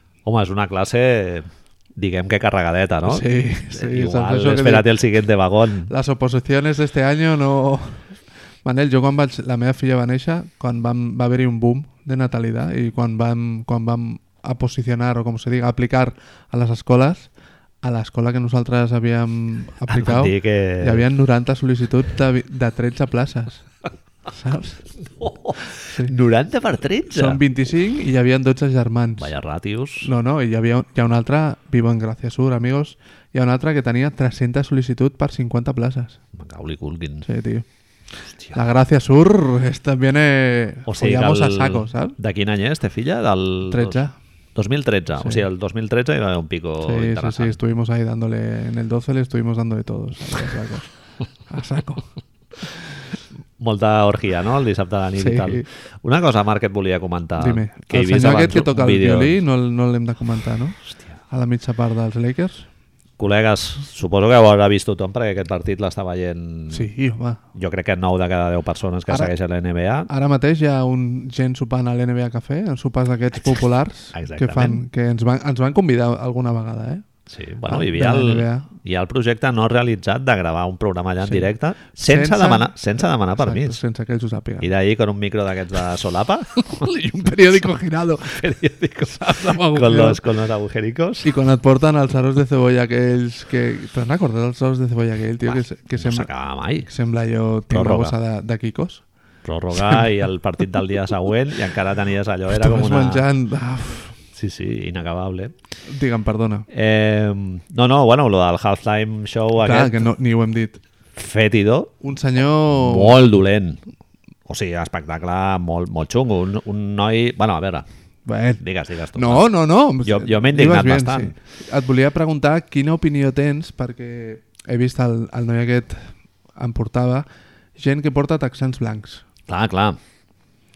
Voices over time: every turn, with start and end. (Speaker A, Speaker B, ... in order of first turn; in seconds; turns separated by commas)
Speaker A: 0.2-5.9, Speaker B: 3.0-4.9, Speaker B: 5.9-8.0, Speaker B: 8.6-17.3, Speaker B: 17.8-23.6, Speaker A: 19.9-21.0, Speaker B: 24.3-24.8, Speaker A: 25.2-27.4, Speaker B: 27.1-29.3, Speaker A: 29.2-30.1, Speaker B: 30.0-36.2, Speaker A: 36.3-37.3, Speaker B: 37.2-37.6, Speaker A: 38.3-38.6, Speaker B: 38.5-42.2, Speaker A: 40.9-44.0, Speaker B: 43.7-44.1, Speaker A: 44.5-47.6, Speaker B: 45.2-45.5, Speaker B: 46.8-50.9, Speaker B: 51.5-52.1, Speaker A: 53.6-59.4, Speaker B: 55.2-55.6, Speaker B: 57.4-60.8, Speaker B: 61.3-62.6, Speaker A: 63.2-66.9, Speaker B: 66.7-67.4, Speaker A: 67.5-70.1, Speaker B: 70.1-77.0, Speaker A: 73.3-74.8, Speaker A: 77.3-83.8, Speaker B: 77.6-78.7, Speaker B: 82.0-82.7, Speaker B: 83.3-84.7, Speaker A: 84.6-86.7, Speaker B: 86.5-88.5, Speaker A: 88.3-91.3, Speaker B: 89.0-90.2, Speaker B: 91.2-96.3, Speaker A: 95.5-96.9, Speaker B: 96.8-99.0, Speaker A: 97.7-98.2, Speaker A: 99.4-103.2, Speaker B: 102.5-104.1, Speaker A: 104.3-105.5, Speaker B: 105.9-106.7, Speaker A: 106.7-110.1, Speaker B: 109.5-110.8, Speaker A: 111.2-112.0, Speaker B: 112.0-113.2, Speaker A: 112.7-113.8, Speaker A: 114.5-117.8, Speaker B: 118.2-118.6, Speaker A: 118.6-119.5, Speaker B: 119.1-127.2, Speaker A: 120.0-121.3, Speaker B: 127.8-129.2, Speaker A: 129.5-130.0